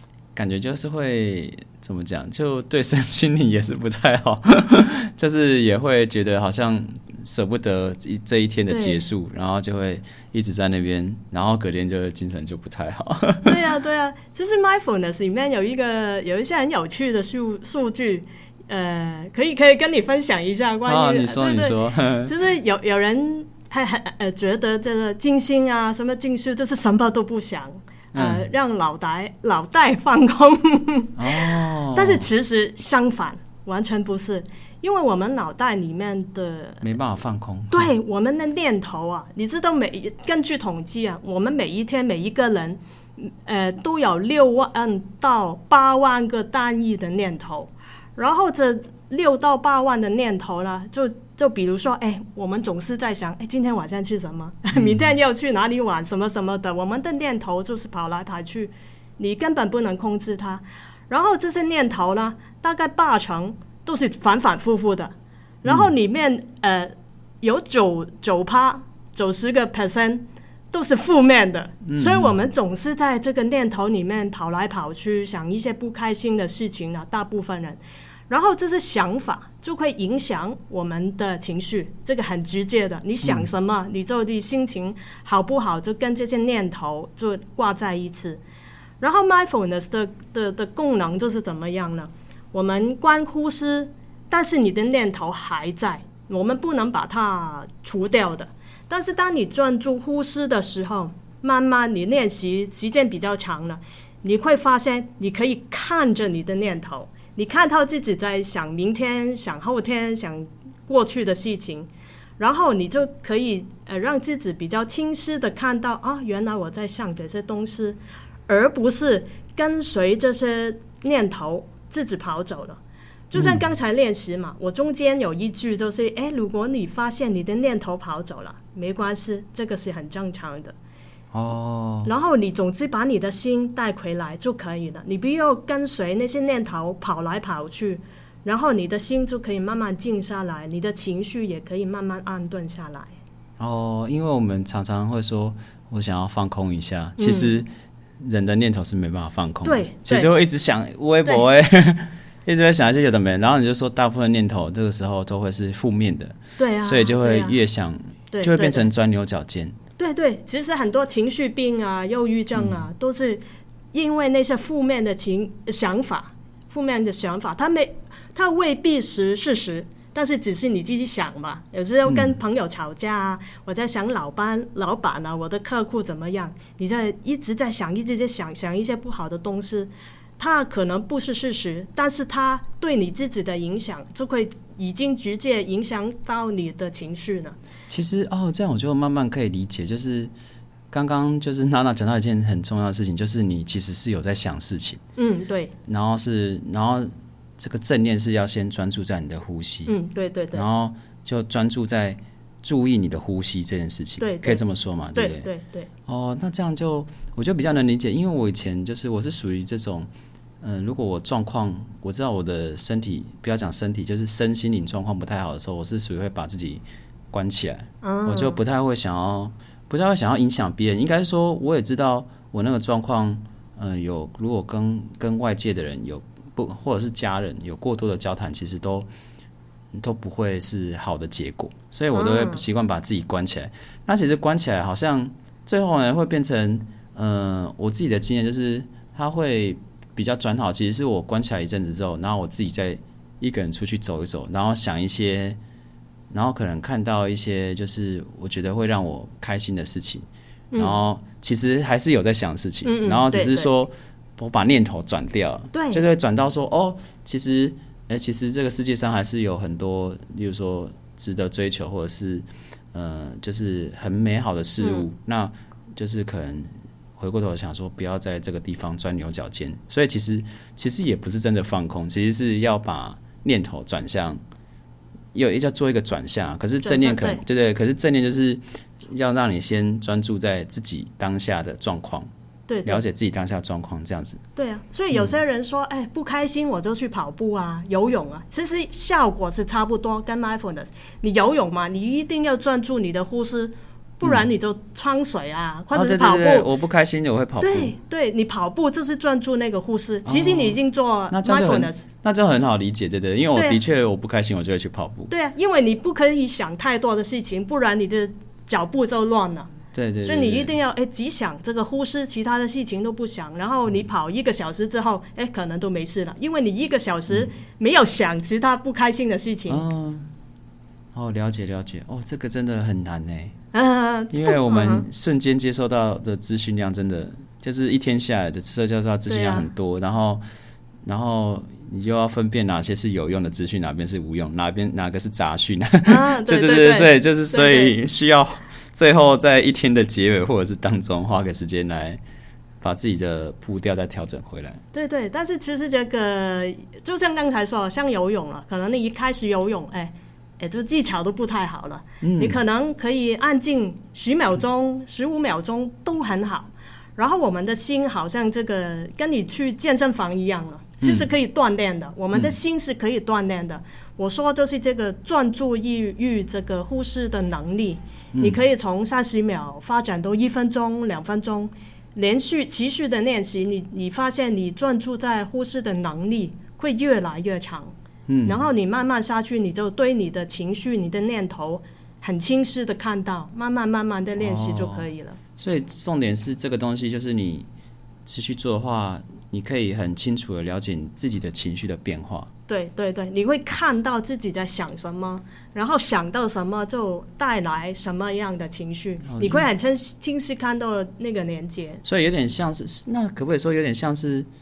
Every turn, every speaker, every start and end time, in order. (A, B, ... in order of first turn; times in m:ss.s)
0:00.3-0:13.6 A
0:08.7-0:09.0 B
0:13.4-0:36.8 B
0:20.8-0:22.3 A
0:28.1-0:28.5 A
0:31.2-0:32.2 A
0:36.8-0:37.9 A
0:37.7-1:05.1 B
0:54.7-0:55.0 A
1:05.6-1:05.9 A
1:05.6-1:28.4 B
1:11.9-1:12.4 A
1:29.0-2:02.8 B
2:03.3-2:10.7 B
2:03.4-2:03.6 A
2:11.3-2:12.1 A
2:12.0-2:23.1 B
2:23.6-2:27.7 A
2:27.2-2:27.5 B
2:28.2-2:39.8 A
2:29.6-2:30.3 B
2:36.6-2:37.6 B
2:38.3-2:38.9 B
2:40.0-2:43.4 B
2:42.5-2:42.8 A
2:43.9-3:07.6 B
2:52.0-2:52.3 A
3:07.9-3:10.3 A
3:10.9-3:15.0 A
3:15.2-3:15.7 B
3:15.8-3:19.9 A
3:19.9-3:20.6 B
3:20.5-3:25.5 A
3:24.2-3:24.6 B
3:25.1-3:25.9 B
3:26.1-3:30.1 A
3:30.6-3:49.1 A
3:38.0-3:38.6 B
3:49.9-4:05.6 A
3:52.1-3:52.6 B
4:06.3-4:10.2 A
4:10.8-4:34.4 A
4:12.8-4:13.7 B
4:15.7-4:16.0 B
4:35.3-4:42.3 A
4:36.8-4:37.4 B
4:42.7-4:43.0 B
4:42.8-4:44.4 A
4:44.6-4:56.7 B
4:55.9-4:57.9 A
4:57.6-5:02.0 B
5:00.2-5:00.8 A
5:01.3-5:05.3 A
5:03.5-5:03.8 B
5:05.3-5:19.8 B
5:09.9-5:10.7 A
5:19.7-5:20.3 A
5:21.1-5:23.6 A
5:23.7-5:25.0 B
5:24.3-5:30.4 A
5:29.3-5:29.6 B
5:31.0-5:42.2 A
5:36.0-5:37.9 B
5:42.8-5:44.8 A
5:44.9-6:17.9 B
5:52.2-5:52.6 A
6:01.0-6:01.3 A
6:08.3-6:08.6 A
6:18.3-6:18.6 A
6:18.4-6:25.4 B
6:24.4-6:25.0 A
6:25.6-6:27.7 A
6:28.2-6:32.5 A
6:32.7-6:42.0 B
6:39.2-6:39.6 A
6:42.0-6:44.5 A